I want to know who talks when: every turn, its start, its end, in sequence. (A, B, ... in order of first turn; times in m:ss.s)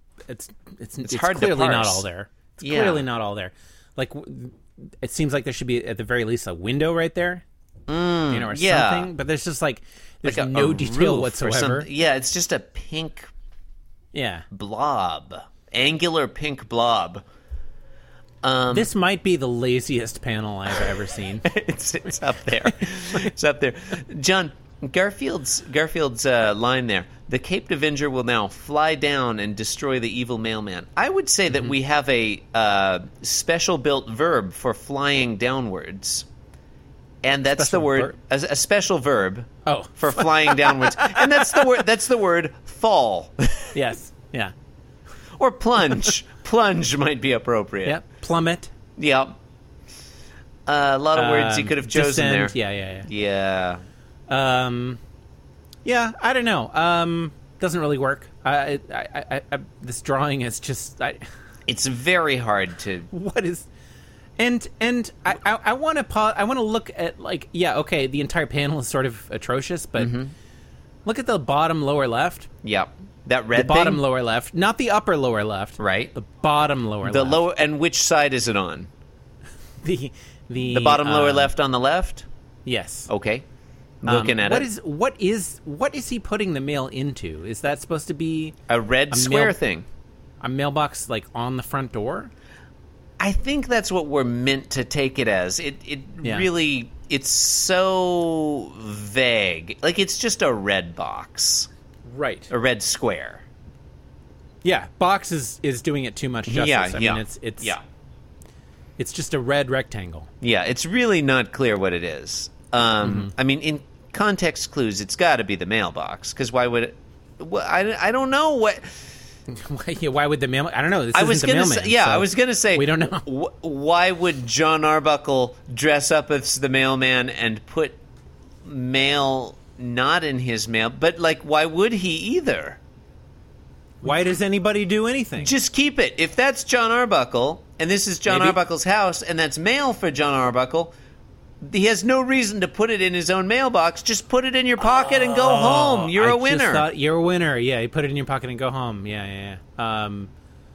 0:00.3-0:07.4 A
0:01.0-0:02.0 B
0:02.6-0:03.0 B
0:07.9-0:09.1 B
0:08.3-0:11.9 A
0:10.2-0:13.3 B
0:14.1-0:14.5 A
0:14.5-0:17.2 B
0:18.4-0:18.9 B
0:18.7-0:21.5 A
0:21.4-0:36.3 B
0:37.2-0:43.8 B
0:37.6-0:38.2 A
0:39.7-0:41.7 A
0:43.7-0:44.5 A
0:45.4-0:48.0 B
0:47.8-0:48.7 A
0:49.0-0:49.4 B
0:50.7-0:53.8 B
0:51.2-0:53.1 A
0:54.3-0:55.0 A
0:55.8-1:01.2 A
1:01.7-1:03.1 B
1:03.1-1:03.7 A
1:04.4-1:10.1 A
1:10.0-1:10.3 B
1:11.0-1:12.5 A
1:12.6-1:14.0 B
1:13.6-1:17.4 A
1:15.8-1:16.1 B
1:17.0-1:18.9 B
1:19.8-1:21.5 A
1:20.6-1:22.3 B
1:22.6-1:23.1 A
1:23.1-1:23.4 B
1:24.0-1:24.7 B
1:24.1-1:28.6 A
1:28.7-1:29.9 B
1:29.1-1:29.6 A
1:30.4-1:32.3 A
1:33.2-1:41.7 B
1:36.2-1:36.5 A
1:42.1-1:42.5 A
1:42.5-1:43.5 B
1:44.6-1:47.8 A
1:46.5-1:47.8 B
1:49.0-1:50.3 A
1:50.4-1:59.0 B
1:53.0-1:53.3 A
1:59.5-2:03.2 A
2:01.1-2:08.0 B
2:08.6-2:12.8 B
2:14.0-2:15.5 A
2:15.4-2:20.9 B
2:18.3-2:18.6 A
2:21.6-2:26.9 B
2:25.3-2:30.3 A